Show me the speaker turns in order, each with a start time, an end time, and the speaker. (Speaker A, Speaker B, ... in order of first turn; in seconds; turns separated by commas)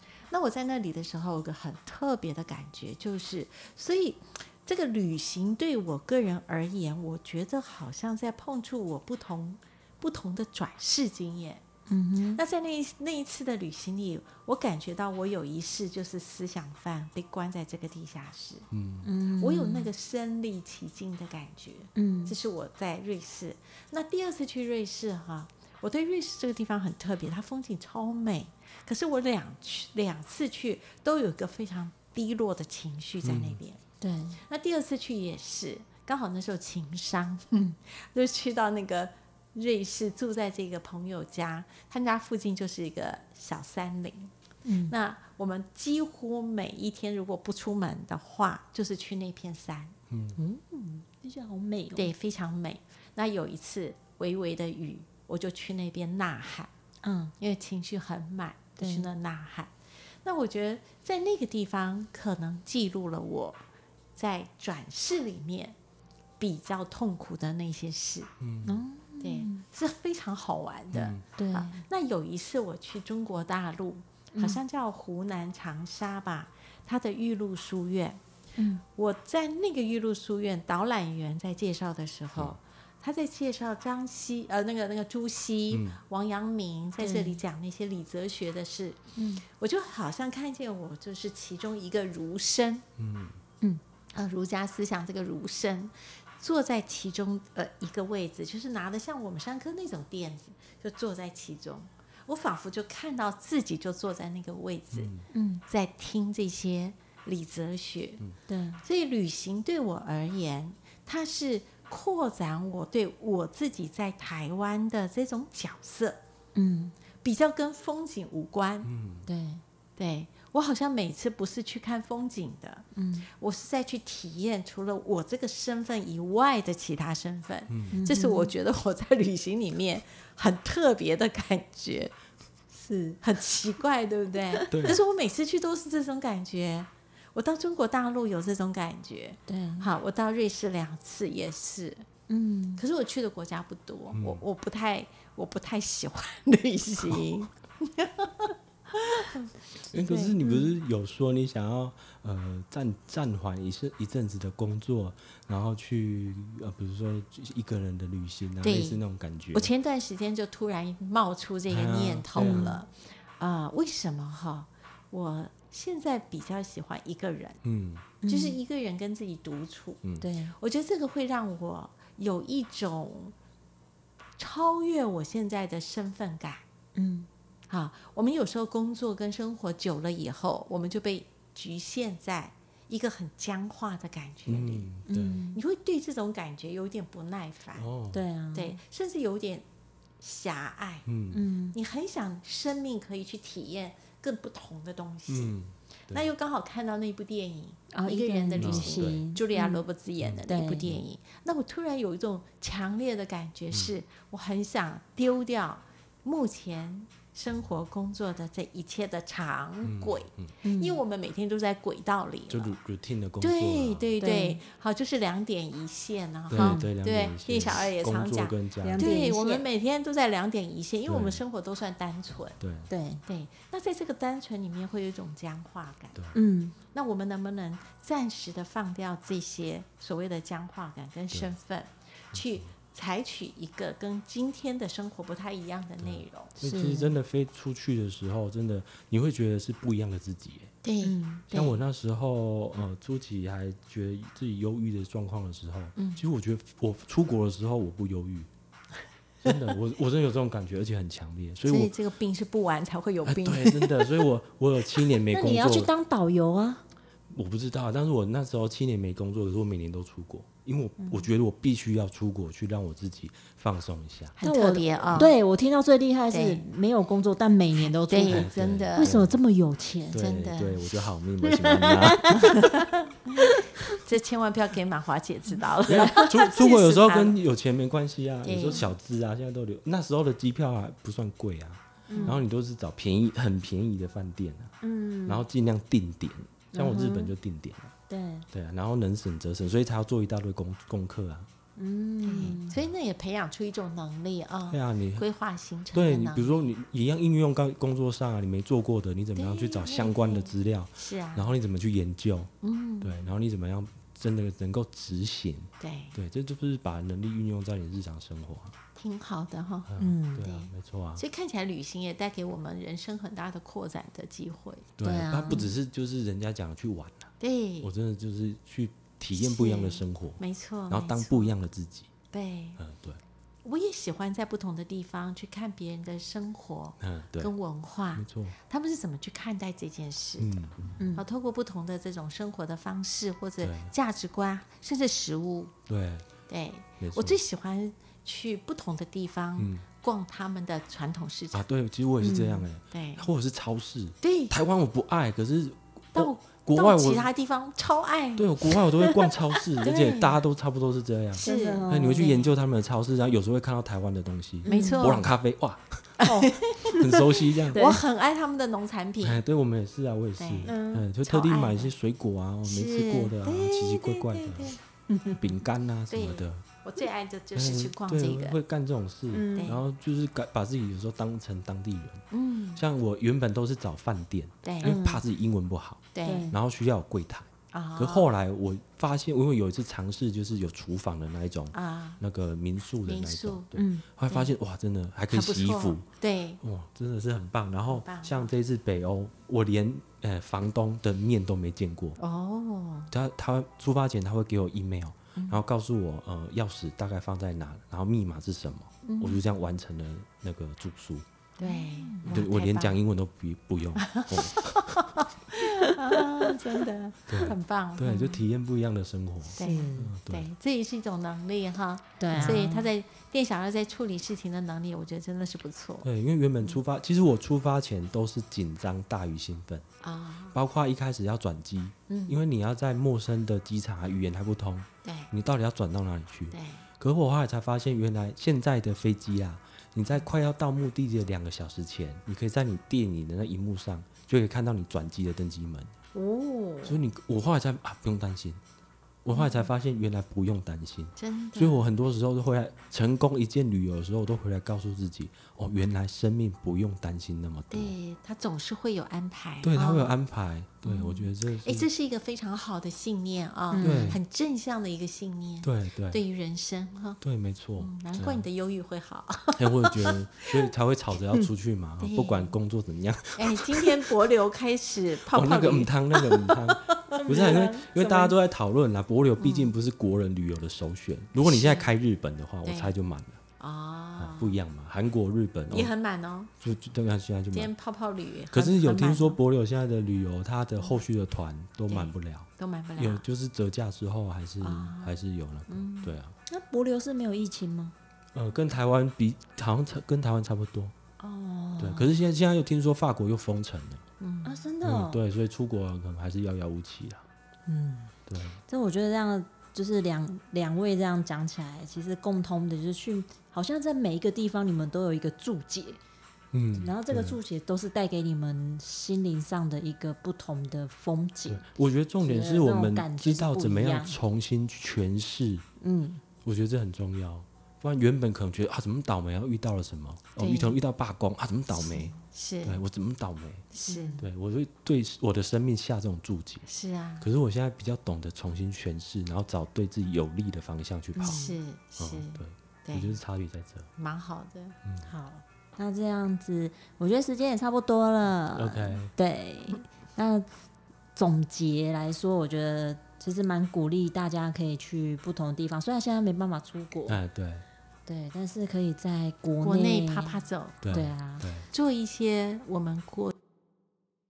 Speaker A: 0.3-11.6, Speaker B: 11.9-12.4, Speaker A: 12.3-18.7, Speaker C: 18.7-19.1, Speaker B: 19.0-19.9, Speaker A: 19.3-33.8, Speaker B: 21.9-22.4, Speaker C: 33.2-33.6, Speaker B: 34.0-34.4, Speaker A: 34.4-44.3, Speaker B: 44.6-44.9, Speaker A: 44.9-49.9, Speaker C: 50.1-50.4, Speaker B: 50.4-52.1, Speaker A: 51.9-56.7, Speaker B: 57.0-57.3, Speaker A: 57.4-59.7, Speaker B: 58.8-59.1, Speaker A: 60.2-63.6, Speaker A: 64.2-65.8, Speaker A: 66.4-68.3, Speaker C: 68.4-68.8, Speaker B: 68.6-69.6, Speaker A: 69.2-78.2, Speaker C: 70.9-71.2, Speaker B: 71.4-71.8, Speaker B: 74.3-74.6, Speaker B: 78.6-78.8, Speaker A: 79.0-89.0, Speaker C: 85.7-86.0, Speaker B: 87.0-87.4, Speaker B: 89.2-89.4, Speaker A: 89.5-92.8, Speaker C: 93.0-93.4, Speaker A: 94.1-105.1, Speaker C: 104.9-105.3, Speaker B: 105.3-105.6, Speaker A: 105.7-108.2, Speaker B: 108.5-108.8, Speaker A: 108.8-116.2, Speaker B: 116.5-116.9, Speaker A: 117.2-118.9, Speaker C: 118.8-119.3, Speaker B: 119.3-119.6, Speaker A: 120.0-132.1, Speaker B: 122.9-123.3, Speaker C: 127.7-127.9, Speaker B: 127.9-128.5, Speaker B: 132.8-133.2, Speaker A: 133.2-142.1, Speaker B: 134.5-134.9, Speaker C: 134.7-135.0, Speaker B: 139.5-139.9, Speaker B: 142.3-142.8, Speaker A: 142.8-149.5, Speaker C: 144.1-144.4, Speaker B: 149.9-150.7, Speaker C: 149.9-159.7, Speaker A: 158.6-159.0, Speaker A: 159.5-167.6, Speaker C: 161.7-162.7, Speaker B: 162.4-162.8, Speaker C: 167.6-168.1, Speaker B: 168.2-168.6, Speaker A: 168.3-170.0, Speaker B: 170.2-170.6, Speaker A: 170.6-173.3, Speaker A: 174.4-176.6, Speaker B: 176.9-177.3, Speaker A: 177.7-184.9, Speaker C: 184.5-185.4, Speaker B: 185.1-185.6, Speaker A: 185.5-187.9, Speaker C: 187.8-188.2, Speaker B: 188.1-188.8, Speaker A: 188.5-189.6, Speaker A: 190.2-191.1, Speaker C: 191.1-191.4, Speaker B: 191.3-191.8, Speaker A: 191.7-195.6, Speaker C: 195.3-196.3, Speaker A: 196.1-212.7, Speaker B: 197.9-199.8, Speaker C: 198.6-199.2, Speaker C: 200.2-201.0, Speaker B: 200.4-200.8, Speaker C: 209.8-210.5, Speaker B: 210.6-211.0, Speaker C: 212.5-214.1, Speaker A: 213.4-222.6, Speaker B: 214.2-214.6, Speaker C: 216.5-219.2, Speaker B: 216.6-216.9, Speaker B: 218.8-219.7, Speaker C: 221.1-221.4, Speaker C: 222.6-222.9, Speaker B: 222.9-223.2, Speaker A: 223.3-226.2, Speaker B: 226.3-226.8, Speaker A: 226.9-236.6, Speaker C: 232.3-232.7, Speaker C: 236.0-240.7, Speaker B: 236.6-237.1, Speaker A: 240.8-241.8, Speaker B: 241.0-241.4, Speaker C: 241.5-248.5, Speaker A: 246.0-246.2, Speaker C: 249.4-251.9, Speaker A: 251.7-254.3, Speaker C: 253.2-255.9, Speaker B: 255.3-256.8, Speaker C: 257.3-264.4, Speaker B: 261.0-261.3, Speaker A: 264.4-265.3, Speaker B: 264.4-270.2, Speaker A: 266.3-266.6, Speaker A: 267.8-269.1, Speaker C: 268.3-269.4, Speaker C: 270.1-272.7, Speaker A: 270.1-270.9, Speaker B: 271.4-272.7, Speaker A: 272.4-277.4, Speaker B: 273.4-274.0, Speaker C: 275.9-284.7, Speaker A: 278.4-278.9, Speaker B: 282.1-282.4, Speaker B: 284.8-285.4, Speaker C: 285.3-287.9, Speaker B: 286.7-287.3, Speaker B: 288.1-288.4, Speaker C: 288.5-291.5, Speaker B: 291.8-292.7, Speaker A: 292.2-296.7, Speaker C: 292.4-292.9, Speaker C: 294.7-295.2, Speaker C: 295.9-308.7, Speaker A: 299.4-301.5, Speaker A: 302.6-303.3, Speaker A: 305.8-306.1, Speaker A: 308.9-314.9, Speaker C: 309.9-311.2, Speaker B: 310.0-310.5, Speaker C: 315.0-322.1, Speaker B: 315.0-315.6, Speaker A: 317.4-317.9, Speaker A: 319.4-321.5, Speaker A: 322.3-322.8, Speaker C: 322.8-323.2, Speaker A: 323.6-335.7, Speaker C: 327.0-327.5, Speaker C: 328.1-328.6, Speaker C: 330.4-331.0, Speaker B: 331.0-331.3, Speaker C: 333.6-333.9, Speaker C: 335.9-336.3, Speaker A: 336.5-341.6, Speaker C: 337.0-337.4, Speaker C: 339.6-339.9, Speaker C: 341.5-347.3, Speaker B: 342.2-342.7, Speaker A: 342.9-343.3, Speaker A: 344.2-344.6, Speaker A: 346.1-350.4, Speaker C: 348.4-356.2, Speaker B: 351.4-352.3, Speaker A: 351.4-352.6, Speaker B: 354.6-355.2, Speaker A: 354.6-355.3, Speaker A: 356.2-359.4, Speaker B: 356.2-357.2, Speaker C: 356.9-357.9, Speaker B: 357.7-358.0, Speaker C: 359.2-364.8, Speaker A: 360.4-360.7, Speaker B: 360.6-361.1, Speaker A: 361.2-361.9, Speaker A: 362.6-364.8, Speaker B: 365.1-365.4, Speaker C: 365.4-366.6, Speaker A: 366.1-368.6, Speaker C: 367.6-372.2, Speaker B: 369.3-369.7, Speaker A: 369.6-369.8, Speaker A: 372.3-372.8, Speaker C: 372.8-386.0, Speaker A: 374.6-375.0, Speaker B: 374.8-375.2, Speaker A: 376.1-376.5, Speaker B: 376.2-376.6, Speaker A: 377.7-378.3, Speaker A: 381.7-382.2, Speaker A: 383.1-383.7, Speaker B: 383.8-384.0, Speaker A: 385.3-386.6, Speaker C: 386.6-392.2, Speaker A: 387.9-388.5, Speaker A: 392.2-393.1, Speaker C: 393.1-401.2, Speaker A: 395.4-395.6, Speaker A: 399.0-399.4, Speaker A: 401.6-403.0, Speaker B: 401.6-402.4, Speaker C: 402.2-405.1, Speaker A: 403.9-408.4, Speaker B: 405.6-405.9, Speaker C: 407.3-410.5, Speaker B: 409.6-410.1, Speaker A: 409.6-416.1, Speaker B: 412.2-412.9, Speaker C: 412.3-412.6, Speaker C: 416.0-419.9, Speaker A: 420.0-420.6, Speaker C: 420.5-435.9, Speaker A: 422.1-422.4, Speaker A: 425.0-425.3, Speaker A: 426.5-426.9, Speaker A: 436.1-437.0, Speaker C: 436.8-438.6, Speaker C: 439.2-447.9, Speaker A: 439.3-439.7, Speaker A: 441.2-441.9, Speaker A: 447.7-450.1, Speaker C: 449.6-451.9, Speaker A: 450.8-457.2, Speaker B: 453.7-454.2, Speaker C: 453.8-454.2, Speaker C: 455.6-456.2, Speaker C: 457.2-458.5, Speaker A: 457.8-460.7, Speaker C: 459.6-464.1, Speaker A: 462.0-462.5, Speaker A: 463.3-467.2, Speaker C: 465.3-473.4, Speaker B: 467.2-468.3, Speaker A: 469.4-469.7, Speaker A: 471.4-471.9, Speaker A: 472.6-472.9, Speaker A: 473.6-474.6, Speaker C: 474.2-475.9, Speaker A: 475.7-476.5, Speaker C: 476.6-477.7, Speaker A: 477.5-479.4, Speaker C: 478.5-486.3, Speaker A: 481.9-483.2, Speaker A: 484.6-486.2, Speaker B: 486.5-487.9, Speaker C: 488.3-490.9, Speaker B: 491.2-492.1, Speaker C: 491.8-494.0, Speaker A: 494.2-494.7, Speaker B: 494.4-495.2, Speaker C: 494.8-497.2, Speaker B: 497.7-498.1, Speaker C: 498.3-498.6, Speaker B: 498.7-506.0, Speaker C: 506.5-507.4, Speaker B: 506.7-511.6, Speaker C: 511.5-515.6, Speaker B: 512.2-514.2, Speaker B: 515.8-516.2, Speaker C: 516.5-523.7, Speaker A: 520.4-520.8, Speaker A: 521.7-522.8, Speaker A: 523.7-524.2, Speaker B: 523.8-524.3, Speaker C: 524.2-526.6, Speaker A: 526.7-527.3, Speaker C: 527.2-531.4, Speaker B: 531.1-531.6, Speaker A: 531.2-533.2, Speaker C: 532.0-533.9, Speaker A: 534.0-535.4, Speaker C: 534.8-535.1, Speaker B: 535.8-540.5, Speaker C: 538.5-539.1, Speaker B: 541.2-547.2, Speaker C: 547.1-547.6, Speaker B: 548.0-551.5, Speaker A: 549.6-550.9, Speaker C: 550.8-551.7, Speaker A: 551.7-553.3